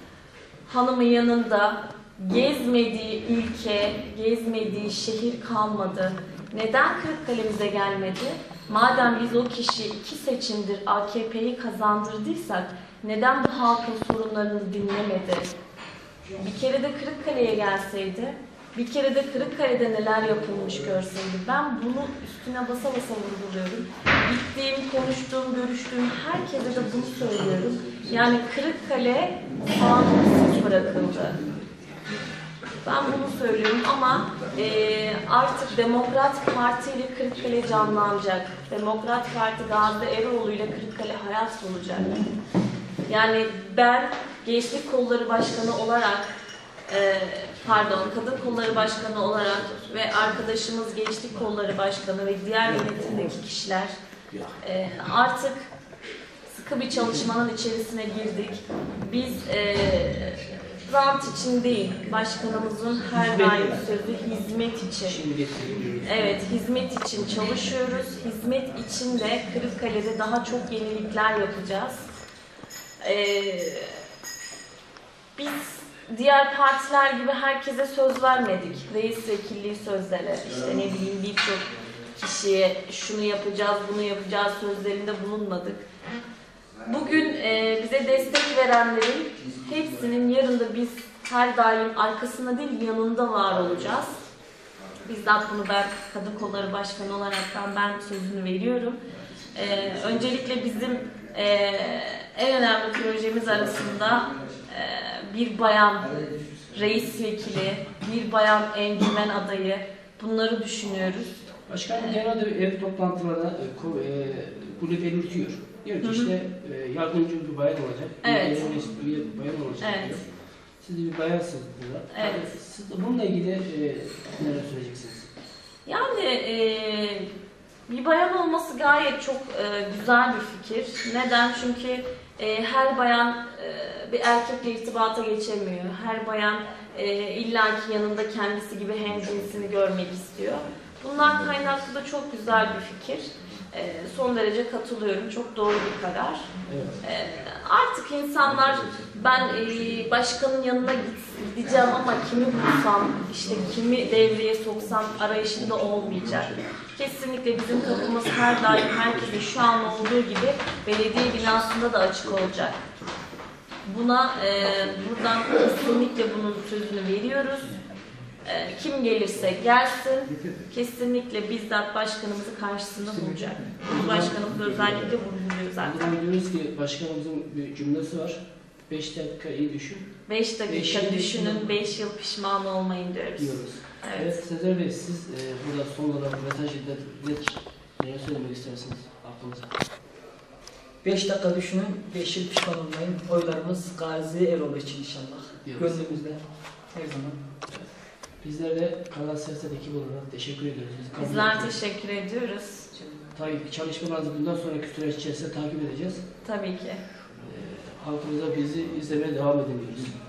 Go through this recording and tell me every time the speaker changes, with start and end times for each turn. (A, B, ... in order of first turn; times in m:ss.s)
0:00.7-0:15.5 A
0:16.4-0:31.4 A
0:32.8-0:42.2 A
0:43.1-0:46.3 A
0:46.9-0:53.9 A
0:54.6-0:55.7 A
0:56.5-1:05.2 A
1:03.2-1:03.8 B
1:05.0-1:06.4 B
1:06.0-1:12.1 A
1:13.0-1:14.0 A
1:15.4-1:25.8 A
1:26.8-1:34.2 A
1:35.0-1:39.0 A
1:39.5-1:51.4 A
1:51.7-2:00.2 B
1:56.0-1:56.3 A
1:58.2-1:58.7 A
1:59.8-2:00.2 A
2:00.8-2:05.3 B
2:02.1-2:02.5 A
2:05.9-2:07.3 A
2:07.9-2:26.5 A
2:26.7-2:27.0 B
2:27.0-2:42.8 A
2:43.8-2:47.8 A
2:48.4-2:56.2 A
2:53.9-2:54.3 B
2:55.8-3:00.1 B
3:00.3-3:04.4 A
3:00.7-3:01.8 B
3:03.4-3:09.7 B
3:11.0-3:16.4 C
3:15.6-3:16.2 B
3:16.9-3:17.4 C
3:18.4-3:21.8 B
3:21.2-3:23.2 A
3:23.4-3:26.2 B
3:26.4-3:27.0 A
3:27.4-3:30.2 B